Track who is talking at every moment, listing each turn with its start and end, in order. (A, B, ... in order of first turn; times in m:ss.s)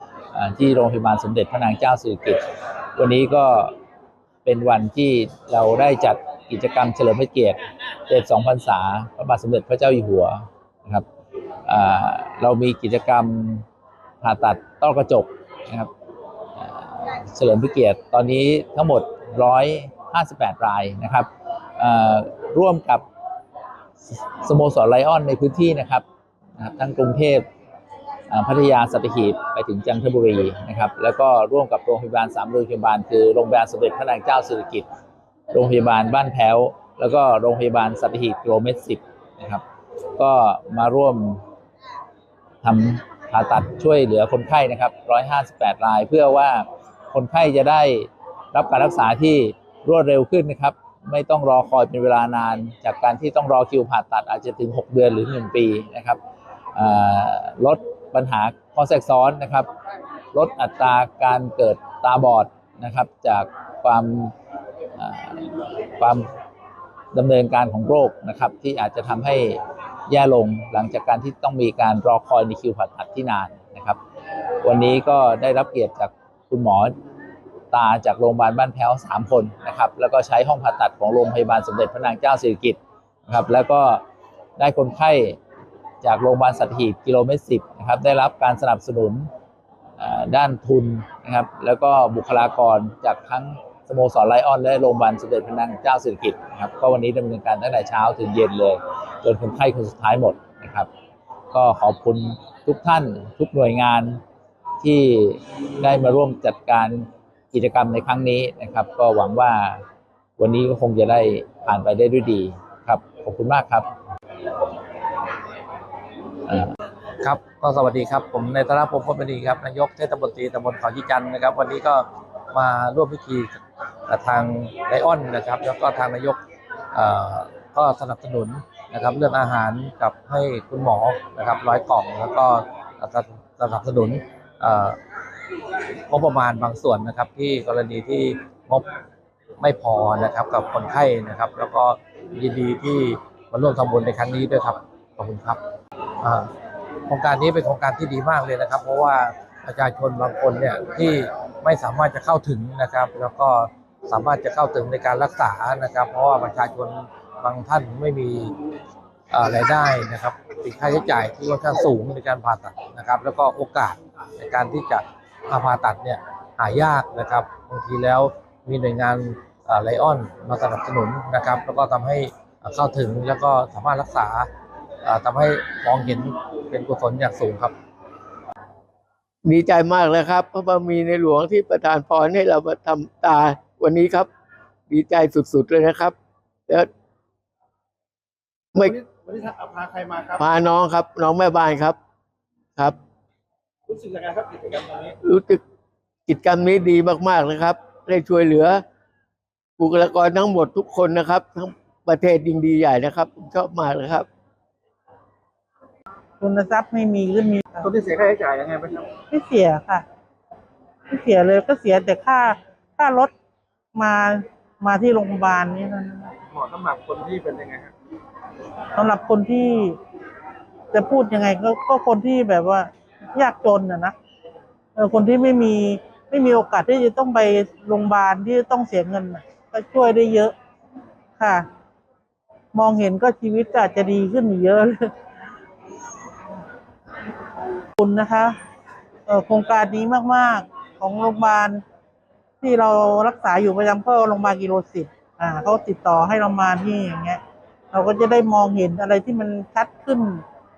0:00.3-0:02.4 A
0:03.0-0:03.7 A
0:04.4-0:11.0 A
0:11.6-0:13.6 A
0:14.2-0:15.9 A
0:16.6-0:23.0 A
0:24.0-0:26.0 A
0:26.6-0:27.4 A
0:28.3-0:34.8 A
0:35.5-0:39.6 A
0:40.2-0:41.4 A
0:42.6-0:56.2 A
0:56.7-0:59.7 A
1:00.3-1:04.3 A
1:05.0-1:06.2 A
1:07.1-1:14.0 A
1:14.6-1:16.9 A
1:17.7-1:24.0 A
1:24.6-1:25.4 A
1:26.0-1:29.3 A
1:30.0-1:40.9 A
1:41.5-1:44.2 A
1:44.8-1:49.8 A
1:50.4-1:53.9 A
1:57.2-2:06.4 B
2:06.9-2:15.0 B
2:16.1-2:18.9 B
2:19.6-2:25.6 B
2:26.2-2:26.5 B
2:27.1-2:38.5 B
2:39.3-2:54.5 B
2:55.0-2:57.8 B
2:59.4-3:04.3 C
3:04.9-3:06.1 C
3:08.7-3:09.0 C
3:09.2-3:10.3 D
3:10.4-3:12.0 C
3:13.9-3:15.1 D
3:15.2-3:15.6 C
3:16.3-3:18.8 C
3:19.8-3:24.3 C
3:26.4-3:27.9 E
3:27.9-3:29.0 D
3:29.3-3:30.0 E
3:31.1-3:33.3 E
3:33.9-3:36.3 E
3:36.5-3:37.9 D
3:38.9-3:40.0 E
3:40.9-3:44.1 E
3:44.9-3:50.5 E
3:51.4-3:51.7 E
3:52.7-3:55.1 E
3:58.0-3:58.5 E
3:59.3-4:01.8 E
4:02.6-4:07.4 E
4:07.9-4:10.4 E